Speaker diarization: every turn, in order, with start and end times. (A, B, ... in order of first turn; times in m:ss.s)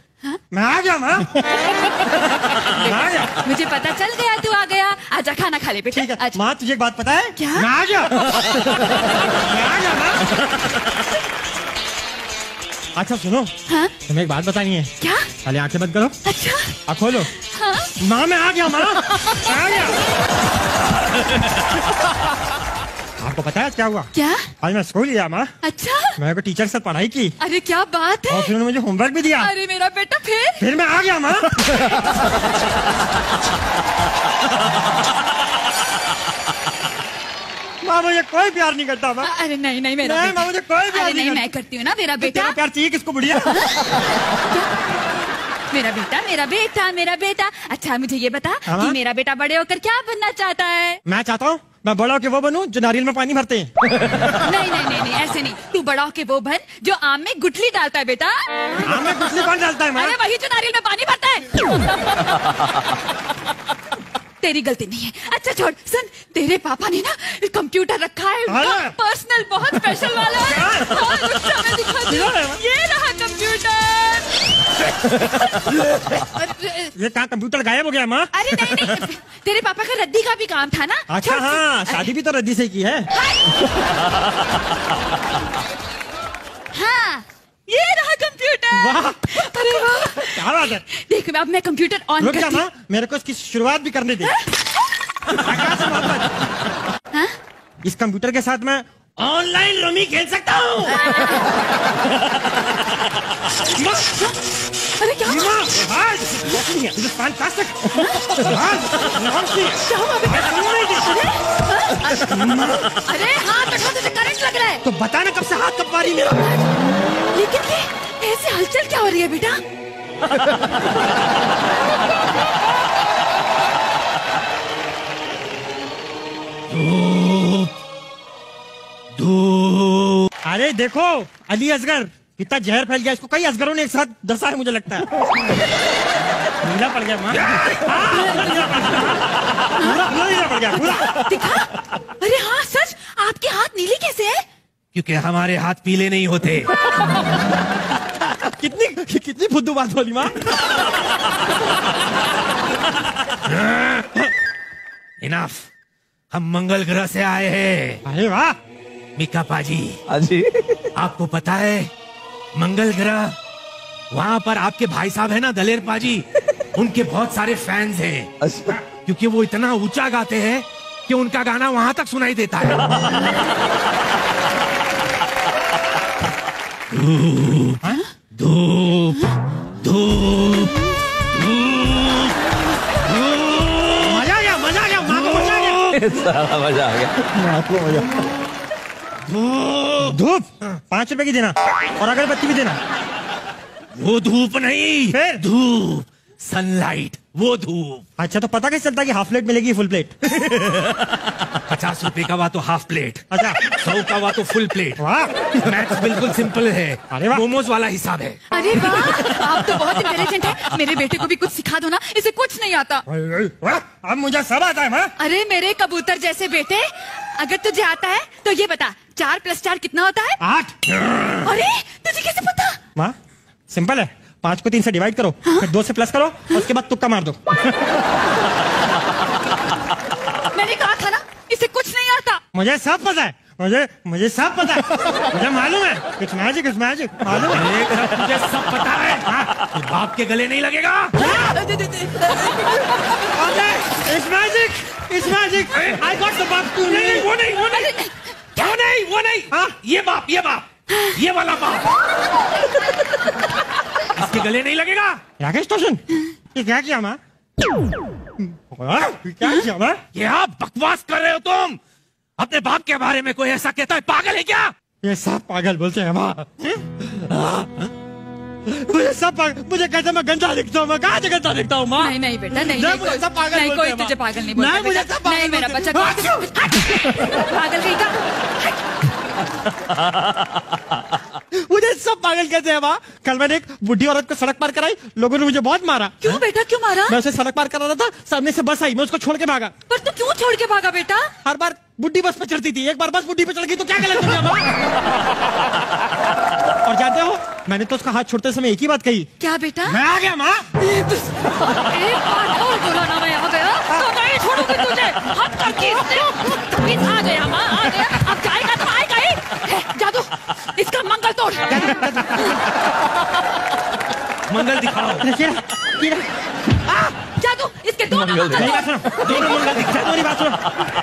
0:00.5-0:03.4 A
0:02.4-0:06.4 B
0:05.9-0:10.3 A
0:07.4-0:07.7 B
0:13.0-0:13.5 A
0:13.7-0:13.9 B
0:14.1-0:14.9 A
0:15.0-0:15.3 B
0:15.4-0:16.2 A
0:16.2-0:16.8 B
0:16.9-0:17.3 A
0:17.4-0:17.9 B
0:18.0-0:20.0 A
0:19.0-0:19.7 B
0:23.2-0:25.5 A
0:24.1-0:24.5 B
0:25.6-0:26.2 B
0:26.2-0:27.4 A
0:27.4-0:28.5 B
0:28.3-0:29.5 A
0:29.4-0:30.6 B
0:30.6-0:32.1 A
0:37.8-0:39.3 A
0:39.2-0:42.6 B
0:40.0-0:41.5 A
0:42.2-0:43.7 A
0:43.4-0:44.7 B
0:45.7-0:51.0 B
0:48.7-0:49.0 A
0:51.0-0:54.2 A
0:54.2-1:03.0 B
0:58.8-1:00.2 A
1:04.4-1:14.5 B
1:08.5-1:08.9 A
1:10.3-1:11.4 A
1:12.0-1:12.6 A
1:15.5-1:16.9 B
1:16.9-1:19.0 A
1:18.3-1:22.1 B
1:21.1-1:23.1 A
1:23.1-1:23.5 B
1:26.7-1:32.6 B
1:28.7-1:30.8 A
1:32.2-1:34.3 A
1:34.2-1:34.5 B
1:35.3-1:36.3 A
1:37.8-1:38.9 A
1:39.2-1:40.9 C
1:39.7-1:41.0 A
1:40.9-1:41.6 B
1:43.7-1:44.4 B
1:45.0-1:45.6 B
1:45.2-1:51.1 A
1:47.9-1:48.4 B
1:48.5-1:49.0 C
1:49.7-1:52.3 B
1:52.1-1:53.0 A
1:53.0-1:54.8 B
1:54.8-1:56.6 A
1:57.3-1:59.6 B
2:06.7-2:07.7 C
2:09.1-2:10.3 C
2:10.4-2:15.1 A
2:16.6-2:21.7 A
2:18.2-2:18.5 B
2:21.1-2:24.4 B
2:24.9-2:26.7 C
2:28.3-2:30.5 A
2:33.5-2:34.2 C
2:35.2-2:35.7 C
2:36.3-2:38.0 C
2:38.0-2:38.6 A
2:39.2-2:40.0 C
2:40.1-2:40.9 D
2:40.9-2:41.9 C
2:42.5-2:43.4 C
2:44.1-2:53.3 C
2:48.4-2:48.8 D
2:56.9-2:57.8 C
2:58.3-2:59.3 C
2:59.8-3:00.7 C
3:01.3-3:02.3 C
3:03.1-3:04.2 C
3:04.0-3:05.9 A
3:05.1-3:06.3 C
3:06.0-3:07.2 D
3:07.2-3:08.2 A
3:09.3-3:10.2 C
3:10.0-3:12.8 A
3:13.9-3:18.0 C
3:15.1-3:15.4 A
3:18.2-3:20.5 A
3:20.5-3:21.0 C
3:21.7-3:25.0 C
3:23.3-3:23.6 A
3:25.0-3:25.5 A
3:25.5-3:28.4 C
3:27.1-3:27.4 A
3:28.5-3:33.0 B
3:33.1-3:35.1 A
3:35.2-3:40.4 B
3:40.4-3:40.8 A
3:41.4-3:42.8 B
3:43.7-3:47.4 A
3:50.5-3:52.4 B
3:52.5-3:57.8 A
3:57.4-4:01.2 C
3:59.2-3:59.5 A
4:01.2-4:01.7 A
4:01.2-4:02.6 B
4:03.3-4:07.3 A
4:05.7-4:06.0 C
4:06.8-4:08.0 C
4:07.7-4:08.6 B
4:08.5-4:11.9 C
4:09.5-4:09.8 A
4:14.1-4:15.2 C
4:15.4-4:17.2 A
4:18.6-4:20.0 A
4:20.1-4:21.8 C
4:22.4-4:24.7 C
4:25.0-4:27.4 A
4:27.3-4:27.8 C
4:28.6-4:37.4 A
4:32.0-4:38.2 B
4:41.6-4:46.4 A
4:46.2-4:47.2 B
4:47.1-4:49.7 A
4:49.9-4:51.3 B
4:51.4-4:54.7 A
4:56.8-4:59.3 A
4:59.4-5:00.0 B
4:59.8-5:00.6 A
5:00.8-5:12.5 B
5:05.8-5:06.5 A
5:11.7-5:12.7 A
5:14.5-5:15.2 C
5:15.2-5:16.3 A
5:17.3-5:18.8 B
5:18.2-5:18.7 D
5:18.5-5:20.6 A
5:19.0-5:20.1 C